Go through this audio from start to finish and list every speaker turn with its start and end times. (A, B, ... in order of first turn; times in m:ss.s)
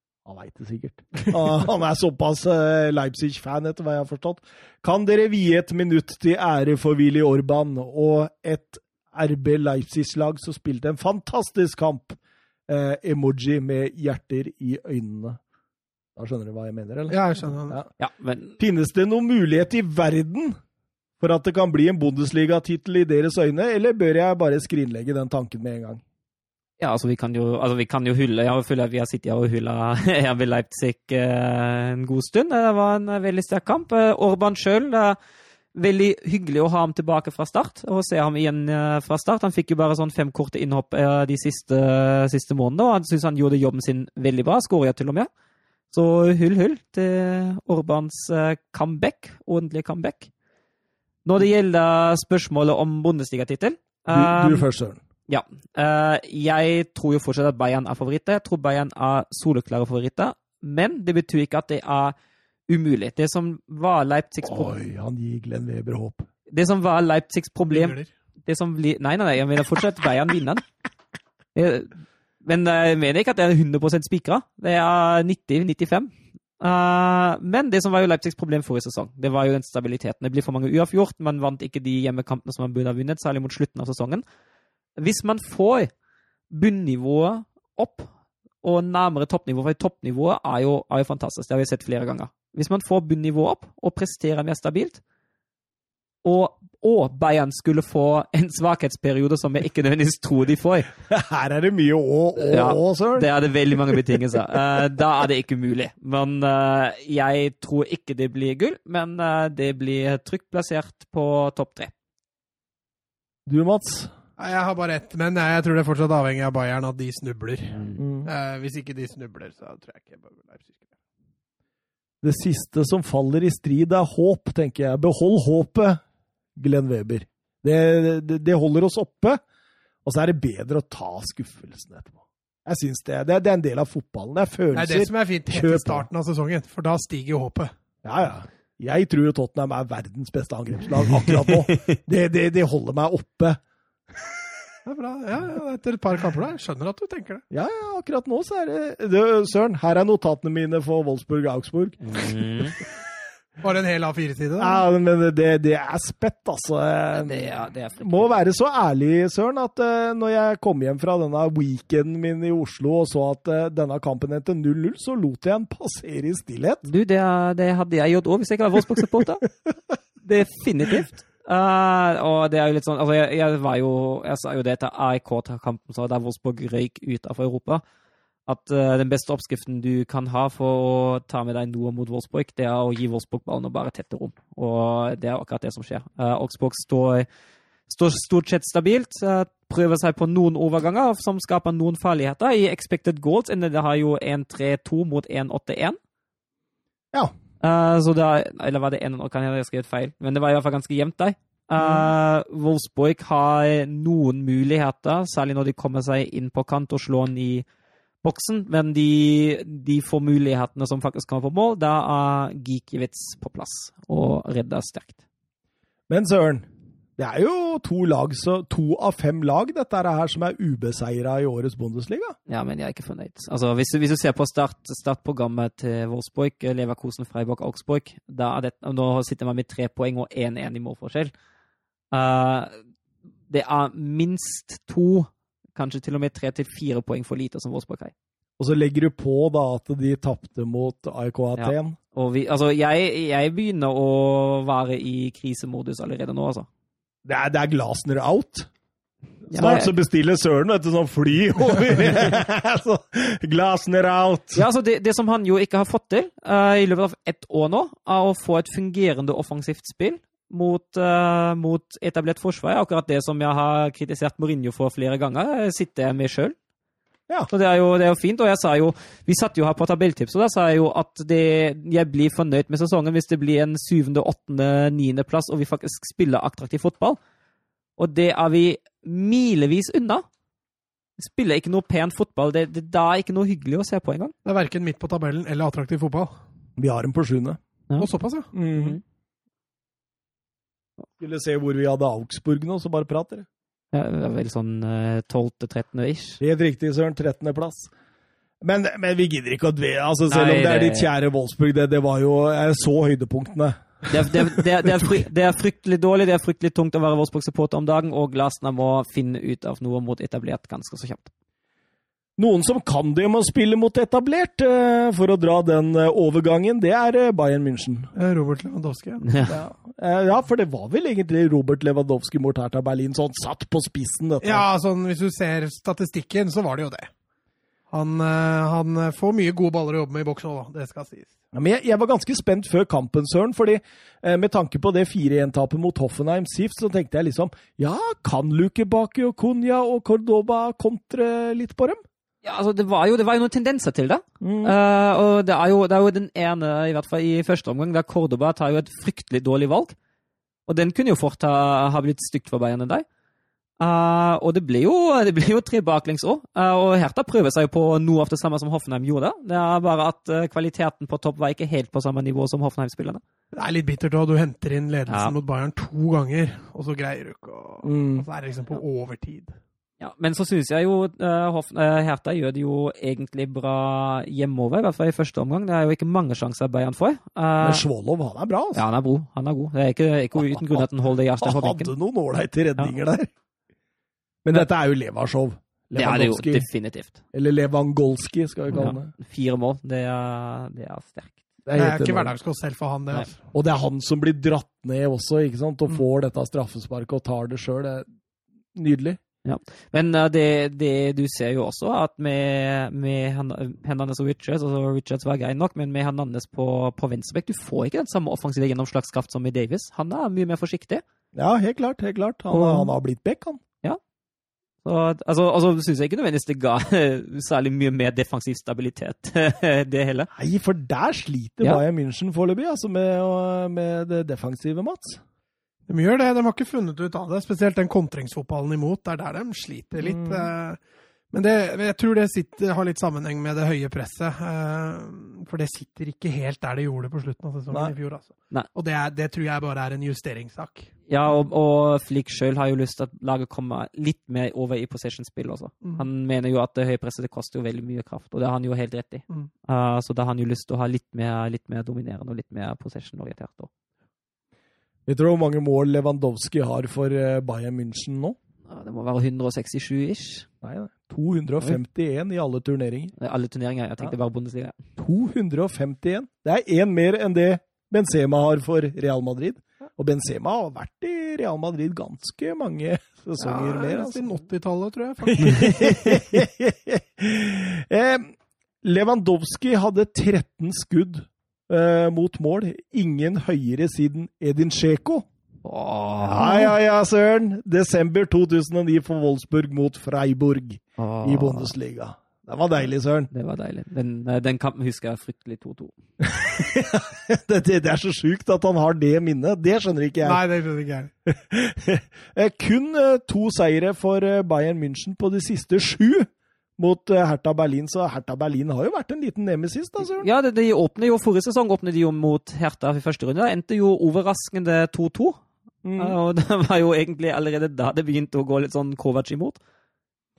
0:00.2-0:15.4 A
0:16.2-0:17.9 A
0:17.1-0:17.8 B
0:18.0-0:18.6 C
0:18.6-0:20.6 A
0:21.2-0:26.0 A
0:26.8-0:35.2 C
0:35.7-0:45.3 C
0:45.9-0:50.3 C
0:51.2-0:54.6 C
0:54.1-0:55.0 A
0:55.3-1:02.1 C
1:02.7-1:04.8 C
1:04.4-1:06.3 A
1:06.5-1:10.6 C
1:07.7-1:08.1 B
1:11.5-1:11.9 C
1:12.4-1:24.2 C
1:25.0-1:25.9 C
1:26.5-1:28.1 C
1:28.6-1:35.0 C
1:36.2-1:40.9 C
1:41.1-1:43.3 A
1:42.4-1:51.9 C
1:53.5-1:54.1 A
1:54.4-2:00.8 B
1:58.0-1:58.3 A
2:02.2-2:06.0 A
2:06.6-2:09.4 A
2:10.0-2:16.1 A
2:14.7-2:17.7 B
2:18.0-2:23.6 A
2:21.2-2:21.9 C
2:24.8-2:27.4 B
2:27.5-2:32.3 A
2:32.0-2:32.8 C
2:33.6-2:34.8 B
2:34.6-2:46.8 A
2:37.1-2:38.3 C
2:46.8-2:49.4 C
2:50.2-2:57.8 C
2:58.5-3:07.3 C
3:07.9-3:16.0 C
3:17.6-3:27.6 C
3:28.2-3:35.2 C
3:36.1-3:42.4 A
3:42.5-3:51.3 C
3:52.1-3:52.7 C
3:53.5-3:58.1 C
3:58.6-4:02.0 A
4:01.6-4:06.7 C
4:07.2-4:08.7 A
4:09.5-4:09.9 C
4:09.5-4:14.6 A
4:14.5-4:26.6 C
4:27.5-4:37.2 C
4:38.0-4:40.2 C
4:41.2-4:44.3 C
4:44.4-4:46.3 B
4:46.8-4:47.6 A
4:48.0-4:48.5 B
4:48.5-4:49.0 A
4:48.7-4:49.0 C
4:51.2-4:53.5 A
4:53.9-4:56.4 C
4:56.4-4:57.9 A
4:58.6-5:04.6 A
5:00.3-5:01.1 C
5:04.1-5:11.3 C
5:12.4-5:18.1 A
5:18.1-5:19.2 B
5:19.2-5:19.6 C
5:19.4-5:24.6 A
5:24.4-5:27.1 B
5:27.9-5:31.3 B
5:31.5-5:42.0 A
5:42.4-5:49.9 C
5:44.4-5:44.8 A
5:50.7-5:53.0 C
5:53.8-6:03.2 C
6:03.5-6:09.6 B
6:05.1-6:05.4 C
6:07.8-6:08.2 A
6:10.0-6:17.8 C
6:17.6-6:18.8 A
6:18.7-6:21.9 C
6:20.4-6:20.9 A
6:21.4-6:23.3 A
6:24.4-6:26.6 A
6:25.9-6:27.2 C
6:27.3-6:29.1 A
6:28.7-6:31.4 C
6:31.6-6:32.3 A
6:31.8-6:33.4 B
6:33.5-6:38.1 A
6:38.7-6:39.2 A
6:39.4-6:51.0 C
6:51.3-6:53.6 A
6:52.5-6:52.9 C
6:54.8-7:00.3 C
7:00.3-7:05.2 A
7:05.9-7:10.8 B
7:10.0-7:10.5 A
7:11.3-7:20.9 B
7:21.1-7:33.7 C
7:35.1-7:38.4 A
7:38.6-7:40.5 C
7:40.6-7:43.1 A
7:43.2-7:44.8 C
7:45.0-7:54.3 A
7:53.4-7:55.9 B
7:55.3-8:05.2 A
8:05.6-8:06.7 C
8:06.2-8:13.3 A
8:11.0-8:11.7 C
8:13.3-8:15.9 C
8:16.2-8:20.4 A
8:20.2-8:21.1 B
8:21.2-8:30.3 A
8:30.0-8:35.4 C
8:35.8-8:36.2 A
8:36.0-8:39.6 C